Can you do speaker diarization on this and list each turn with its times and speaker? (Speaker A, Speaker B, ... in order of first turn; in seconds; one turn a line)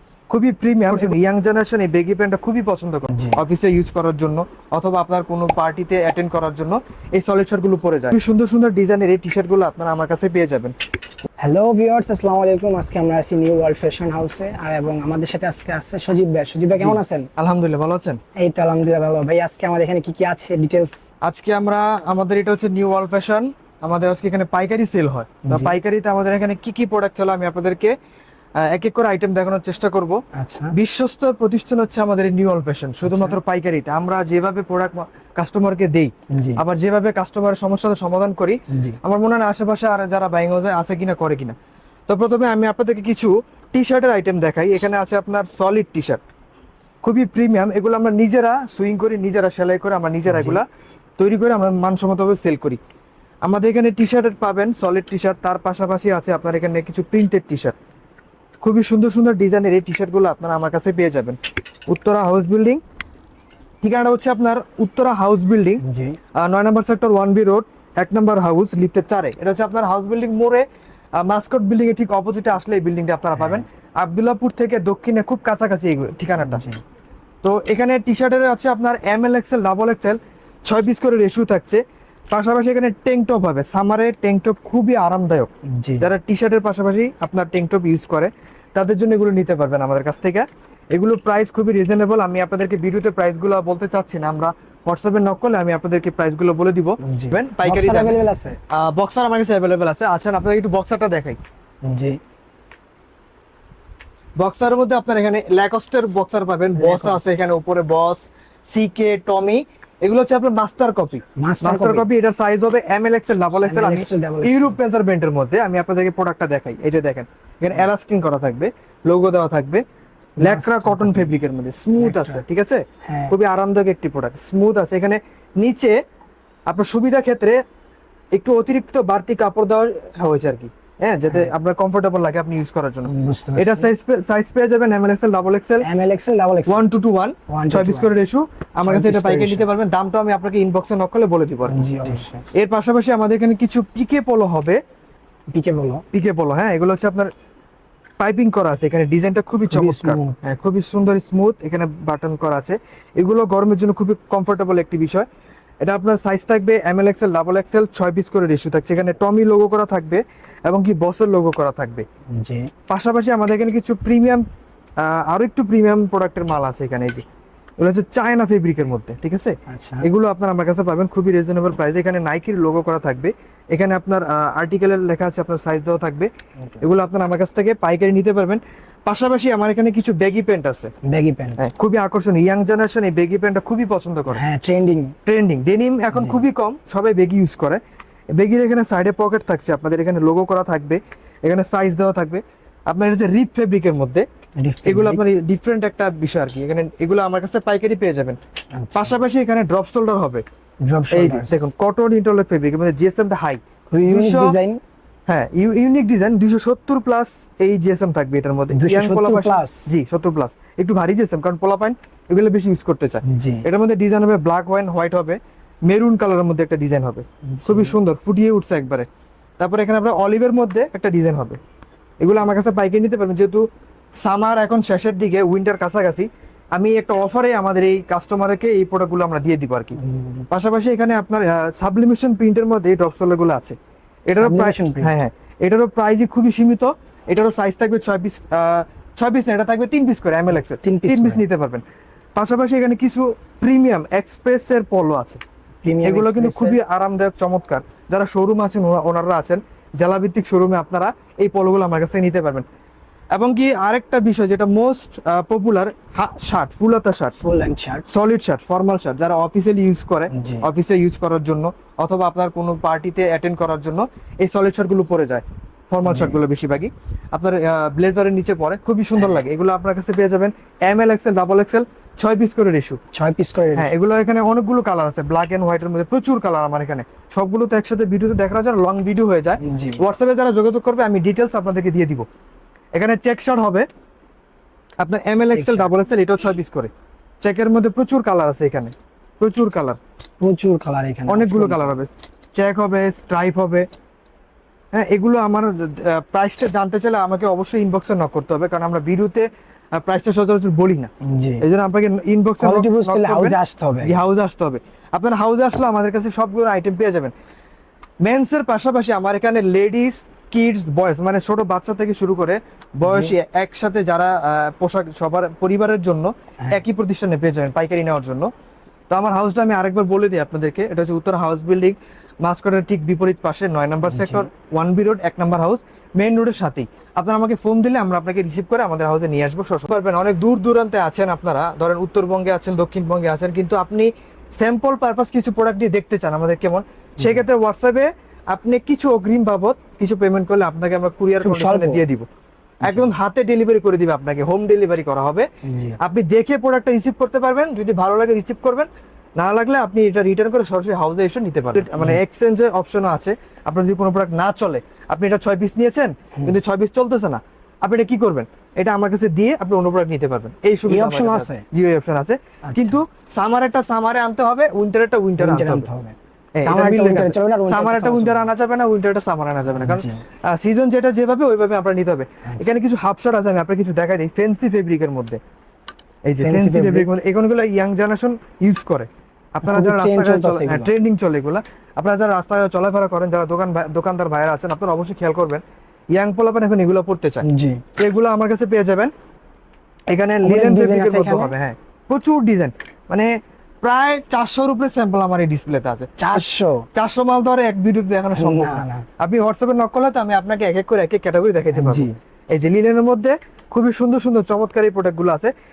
Speaker A: 0.3-10.7
Speaker B: 0.9-1.1
Speaker B: 3.1-3.4
Speaker B: 11.4-17.3
Speaker A: 16.8-18.2
Speaker B: 18.4-21.0
Speaker A: 21.2-27.9
Speaker B: 25.4-25.8
Speaker A: 28.6-30.2
Speaker B: 30.3-30.7
Speaker A: 30.7-41.5
Speaker B: 33.0-33.4
Speaker B: 36.3-36.6
Speaker B: 38.7-39.0
Speaker A: 42.1-46.2
Speaker A: 47.0-50.6
Speaker B: 50.3-50.6
Speaker A: 51.2-52.8
Speaker A: 53.5-57.8
Speaker A: 58.6-61.4
Speaker A: 61.9-62.8
Speaker A: 63.8-65.8
Speaker B: 65.8-66.2
Speaker A: 66.4-70.6
Speaker A: 71.2-76.6
Speaker B: 73.3-73.6
Speaker B: 76.4-76.8
Speaker A: 77.4-85.5
Speaker B: 85.7-86.1
Speaker A: 86.0-98.2
Speaker B: 97.0-98.6
Speaker A: 98.7-101.4
Speaker B: 101.8-102.2
Speaker A: 104.4-119.8
Speaker B: 106.8-107.3
Speaker B: 111.4-112.1
Speaker B: 113.6-114.8
Speaker A: 120.4-125.9
Speaker B: 120.4-121.3
Speaker B: 122.0-122.4
Speaker B: 123.0-123.3
Speaker A: 126.7-127.6
Speaker A: 128.3-135.8
Speaker B: 133.1-133.9
Speaker B: 135.8-136.9
Speaker A: 136.7-141.7
Speaker B: 137.5-138.1
Speaker B: 138.8-139.7
Speaker B: 141.7-142.4
Speaker A: 142.5-144.8
Speaker B: 145.5-146.0
Speaker A: 146.1-147.3
Speaker A: 148.2-155.2
Speaker B: 149.7-150.4
Speaker A: 155.8-162.1
Speaker B: 162.3-162.7
Speaker A: 162.9-164.4
Speaker A: 165.0-167.2
Speaker A: 167.8-176.3
Speaker B: 169.7-170.1
Speaker A: 176.8-180.9
Speaker B: 181.1-181.6
Speaker A: 181.6-184.4
Speaker B: 184.3-185.2
Speaker A: 185.2-187.8
Speaker B: 186.1-186.4
Speaker A: 188.4-194.2
Speaker B: 194.6-195.2
Speaker A: 194.9-198.4
Speaker B: 198.8-199.2
Speaker A: 198.9-200.4
Speaker B: 200.8-201.7
Speaker A: 201.1-204.6
Speaker B: 203.9-204.8
Speaker A: 205.3-219.1
Speaker B: 208.7-209.9
Speaker B: 213.2-213.6
Speaker B: 217.5-217.9
Speaker A: 219.6-221.6
Speaker A: 222.2-223.7
Speaker A: 224.2-230.0
Speaker B: 230.0-230.4
Speaker A: 230.5-241.8
Speaker B: 234.4-235.1
Speaker B: 240.8-241.4
Speaker A: 242.3-245.4
Speaker B: 245.8-246.8
Speaker A: 246.1-252.6
Speaker A: 253.3-257.4
Speaker B: 257.4-258.1
Speaker A: 258.1-273.0
Speaker B: 260.3-260.6
Speaker B: 266.1-266.4
Speaker B: 269.2-269.4
Speaker B: 273.1-273.9
Speaker A: 273.8-282.2
Speaker B: 279.6-280.0
Speaker A: 282.9-283.9
Speaker A: 285.0-286.9
Speaker B: 285.5-285.9
Speaker A: 287.4-290.0
Speaker B: 290.4-292.0
Speaker A: 291.3-293.9
Speaker A: 294.9-301.1
Speaker B: 301.2-301.6
Speaker A: 301.6-307.3
Speaker B: 302.6-304.2
Speaker A: 308.2-318.5
Speaker B: 313.1-313.4
Speaker A: 319.1-342.3
Speaker B: 324.1-324.5
Speaker B: 341.4-342.0
Speaker A: 342.8-345.5
Speaker B: 342.9-343.1
Speaker B: 345.6-346.0
Speaker A: 346.0-348.9
Speaker A: 349.4-365.9
Speaker B: 351.9-352.2
Speaker B: 360.9-361.6
Speaker B: 362.7-363.0
Speaker B: 365.4-368.5
Speaker A: 366.6-375.4
Speaker B: 369.7-370.2
Speaker A: 376.3-385.6
Speaker B: 376.4-377.1
Speaker B: 379.6-380.9
Speaker A: 386.1-387.4
Speaker B: 387.4-387.8
Speaker A: 388.0-389.1
Speaker A: 390.1-393.3
Speaker B: 390.4-391.5
Speaker A: 393.8-405.5
Speaker B: 396.2-396.9
Speaker B: 398.3-399.1
Speaker B: 401.7-402.1